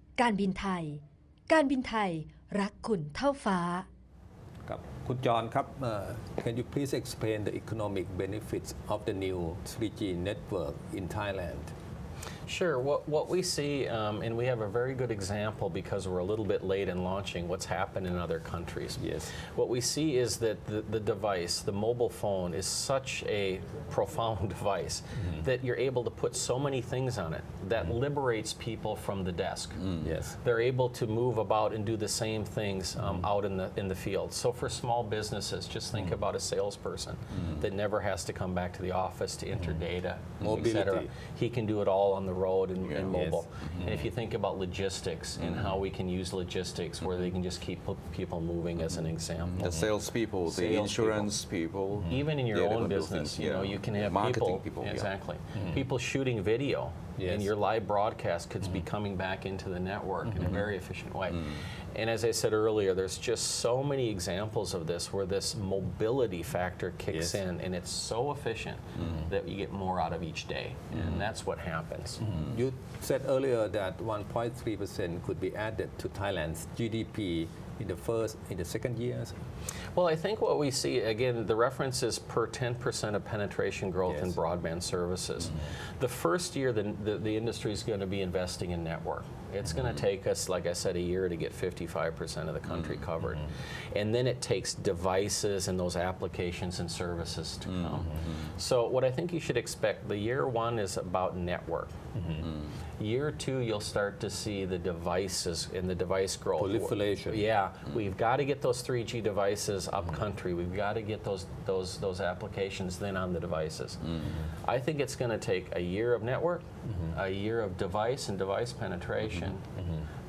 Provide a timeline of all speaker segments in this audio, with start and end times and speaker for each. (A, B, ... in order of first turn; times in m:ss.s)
0:00.2-0:03.9 A
0:04.7-0:11.7 B
0:12.5-0:49.9 C
0:19.0-0:19.3 B
0:29.8-0:30.1 D
0:30.0-0:30.4 B
0:40.4-0:41.1 B
0:42.8-0:43.2 D
0:43.1-0:44.1 B
0:45.5-0:45.7 D
0:49.5-0:55.1 D
0:50.5-0:51.3 C
0:52.0-1:12.2 C
0:57.2-0:57.5 B
1:00.2-1:00.6 B
1:07.1-1:07.4 B
1:12.2-1:19.4 B
1:19.9-1:42.0 C
1:24.1-1:24.4 B
1:37.7-1:38.1 D
1:42.2-1:42.5 B
1:43.0-1:54.0 C
1:46.6-1:47.5 B
1:54.6-1:59.6 C